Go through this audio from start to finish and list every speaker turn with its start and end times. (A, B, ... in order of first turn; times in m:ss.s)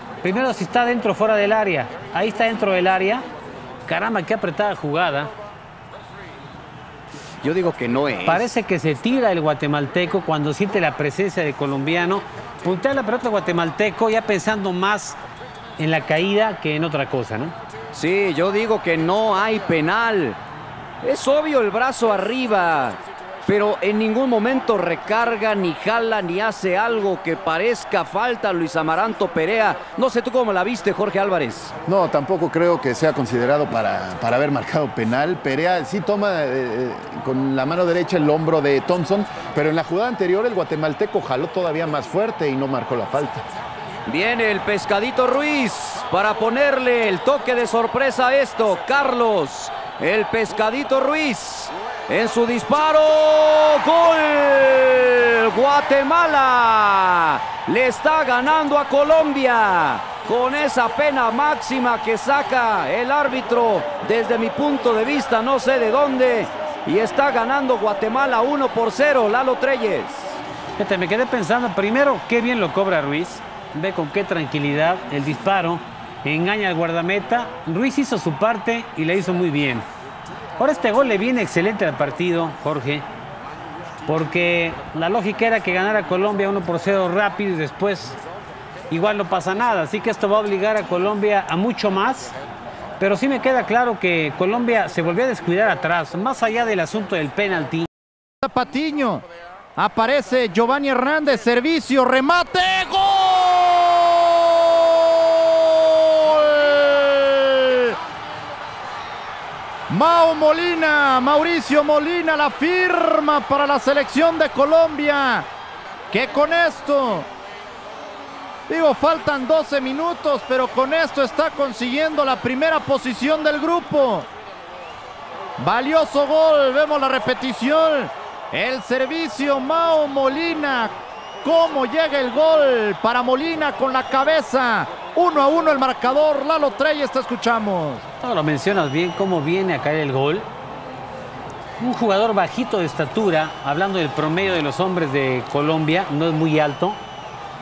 0:00.2-0:03.2 A
0:03.9-0:05.3 A
0:07.4-0:08.5 B
0:08.2-0:15.2 A
0:15.8-0:17.6 A
0:17.9-0:20.4 B
0:21.0-0:31.7 B
0:31.9-0:43.5 C
0:44.1-1:10.4 B
1:10.8-1:19.8 A
1:20.6-1:23.1 A
1:24.1-1:28.2 A
1:28.9-1:32.3 A
1:33.0-1:37.9 A
1:38.4-1:48.0 D
1:49.9-1:55.5 D
1:56.1-1:57.3 D
1:58.7-2:04.3 D
2:05.6-2:18.0 D
2:18.2-2:20.5 A
2:21.8-2:27.0 A